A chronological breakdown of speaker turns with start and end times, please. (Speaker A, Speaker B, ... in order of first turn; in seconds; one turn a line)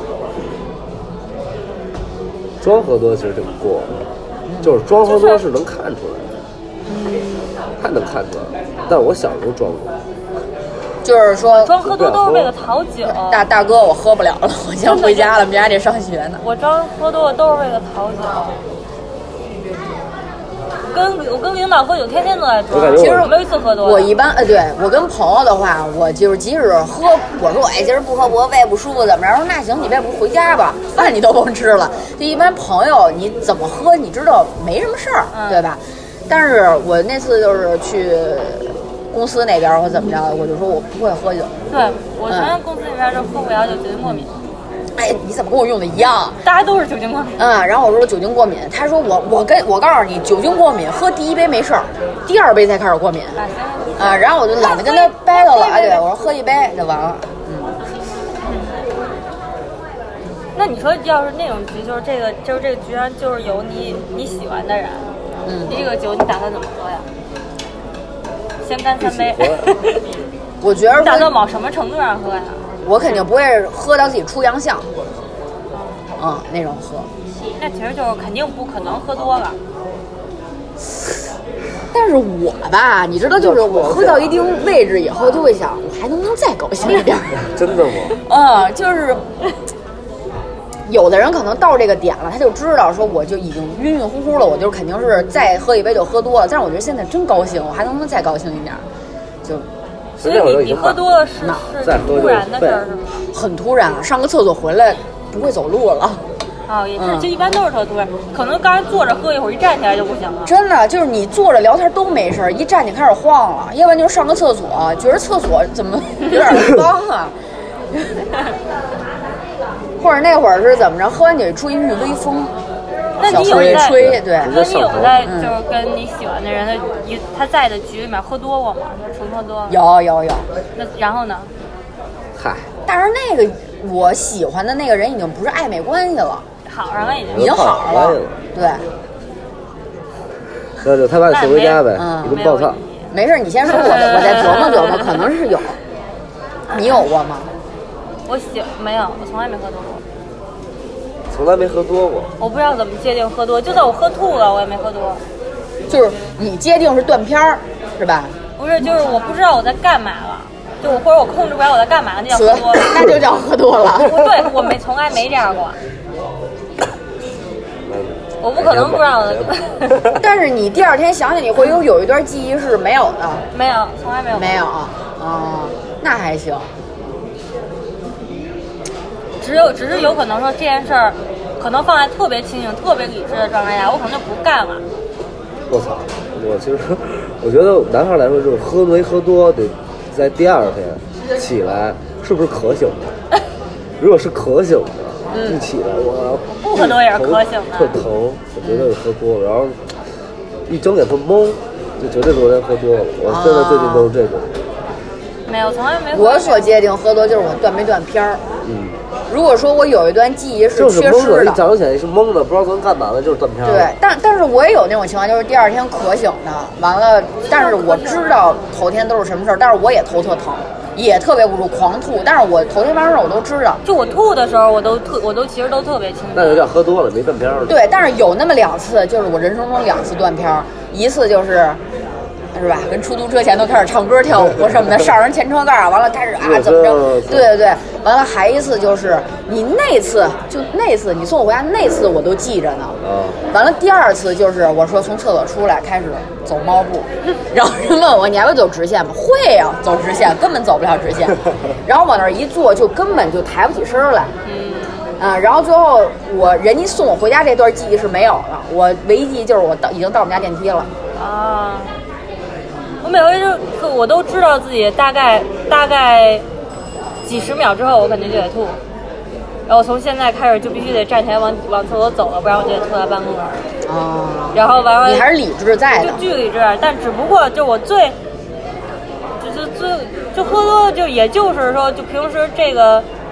Speaker A: 2.6-4.0
Speaker B: 4.5-4.8
Speaker A: 4.6-6.3
Speaker C: 5.0-5.4
Speaker C: 6.8-7.6
Speaker A: 7.8-9.9
Speaker B: 11.0-11.8
Speaker C: 11.6-13.4
Speaker A: 11.8-12.5
Speaker B: 13.1-16.4
Speaker C: 14.8-15.4
Speaker C: 16.4-18.5
Speaker C: 20.9-24.1
Speaker A: 22.7-23.3
Speaker B: 22.9-41.5
Speaker C: 35.3-35.6
Speaker C: 41.7-44.3
Speaker B: 42.3-42.5
Speaker B: 45.0-46.4
Speaker C: 46.4-47.4
Speaker B: 47.4-53.4
Speaker C: 53.4-56.0
Speaker B: 54.0-57.7
Speaker C: 58.4-58.8
Speaker C: 60.5-65.1
Speaker B: 65.4-65.8
Speaker C: 65.7-67.1
Speaker C: 68.6-70.0
Speaker A: 69.0-69.7
Speaker B: 70.6-71.3
Speaker C: 71.0-73.2
Speaker B: 72.8-74.9
Speaker C: 75.7-76.0
Speaker B: 76.2-77.1
Speaker C: 77.6-79.6
Speaker B: 81.9-87.5
Speaker A: 83.3-84.4
Speaker A: 87.4-88.2
Speaker B: 88.2-89.2
Speaker B: 90.9-98.8
Speaker C: 100.2-103.2
Speaker A: 100.2-101.1
Speaker A: 101.8-102.8
Speaker B: 103.3-106.2
Speaker C: 106.7-110.5
Speaker B: 107.0-107.3
Speaker B: 110.5-117.3
Speaker B: 120.0-122.5
Speaker C: 123.2-129.8
Speaker B: 123.2-124.5
Speaker A: 123.5-125.2
Speaker B: 125.2-125.5
Speaker B: 129.7-130.5
Speaker C: 130.8-131.5
Speaker A: 132.4-132.7
Speaker B: 132.9-136.4
Speaker C: 136.7-137.6
Speaker A: 137.2-138.4
Speaker B: 137.3-138.8
Speaker A: 140.8-142.8
Speaker C: 141.3-143.1
Speaker B: 141.9-142.4
Speaker B: 143.1-145.8
Speaker C: 143.7-145.2
Speaker B: 146.7-147.5
Speaker C: 148.3-150.0
Speaker A: 151.3-152.3
Speaker C: 152.4-155.2
Speaker B: 155.9-158.3
Speaker C: 158.6-162.9
Speaker B: 162.3-164.3
Speaker C: 164.0-165.8
Speaker A: 167.8-170.2
Speaker C: 168.4-170.0
Speaker B: 170.2-173.4
Speaker C: 173.5-174.6
Speaker B: 174.3-176.7
Speaker C: 179.4-184.8
Speaker A: 185.7-193.1
Speaker A: 194.0-199.8
Speaker B: 195.3-195.6
Speaker C: 196.5-197.9
Speaker A: 200.7-204.6
Speaker B: 203.3-204.1
Speaker C: 205.4-206.6
Speaker B: 206.1-208.4
Speaker A: 208.6-209.0
Speaker B: 209.3-211.6
Speaker A: 210.7-213.9
Speaker B: 213.6-223.8
Speaker C: 217.5-218.3
Speaker C: 223.8-226.7
Speaker A: 226.3-227.8
Speaker B: 227.7-231.8
Speaker B: 232.5-254.3
Speaker A: 236.4-237.5
Speaker A: 243.0-243.4
Speaker C: 254.4-255.2
Speaker B: 255.2-260.9
Speaker C: 261.1-261.9
Speaker C: 263.0-266.4
Speaker C: 267.2-268.8
Speaker C: 269.7-273.7
Speaker B: 273.9-276.2
Speaker C: 274.5-275.3
Speaker C: 275.9-278.1
Speaker C: 279.4-283.1